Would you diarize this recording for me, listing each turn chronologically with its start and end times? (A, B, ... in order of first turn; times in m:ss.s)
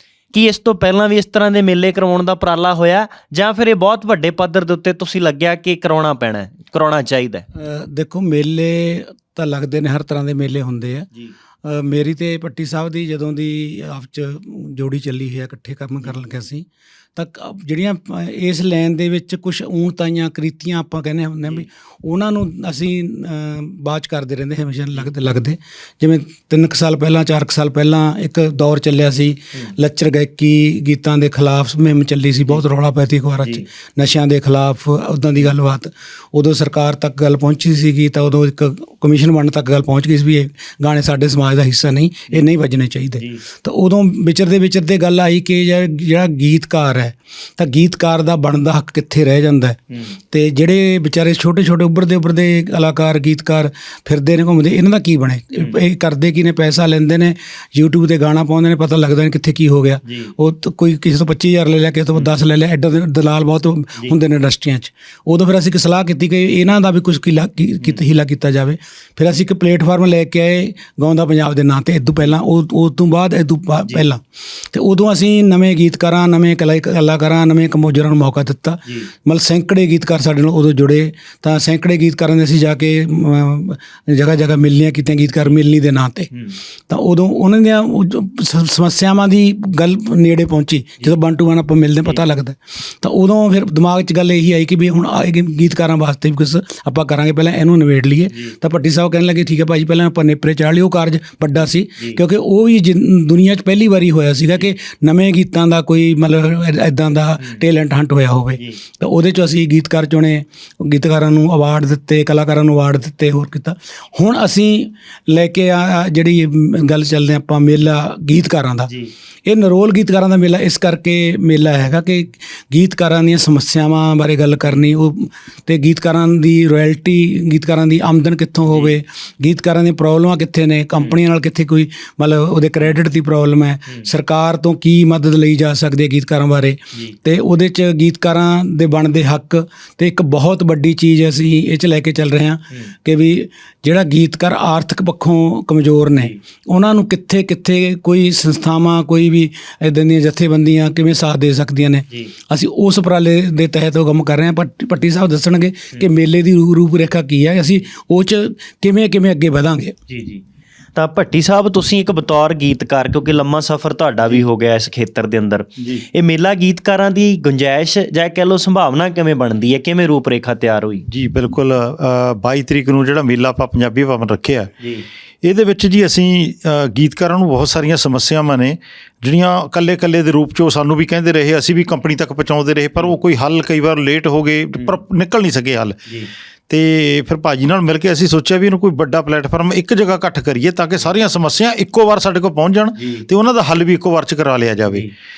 0:00.3-0:07.4 A
0:07.6-0:11.1 B
0:11.6-0:49.8 B
0:49.9-0:50.2 A
0:50.3-1:26.3 B
1:00.0-1:00.3 A
1:26.9-1:58.9 B
1:58.9-1:59.1 A
1:59.4-2:40.0 B
2:08.7-2:09.0 A
2:40.1-2:40.4 A
2:41.0-2:51.0 A
2:51.1-2:54.7 C
2:54.8-2:55.0 A
2:55.4-3:06.0 C
3:06.7-3:15.0 C
3:13.0-3:13.3 A
3:14.8-3:15.1 A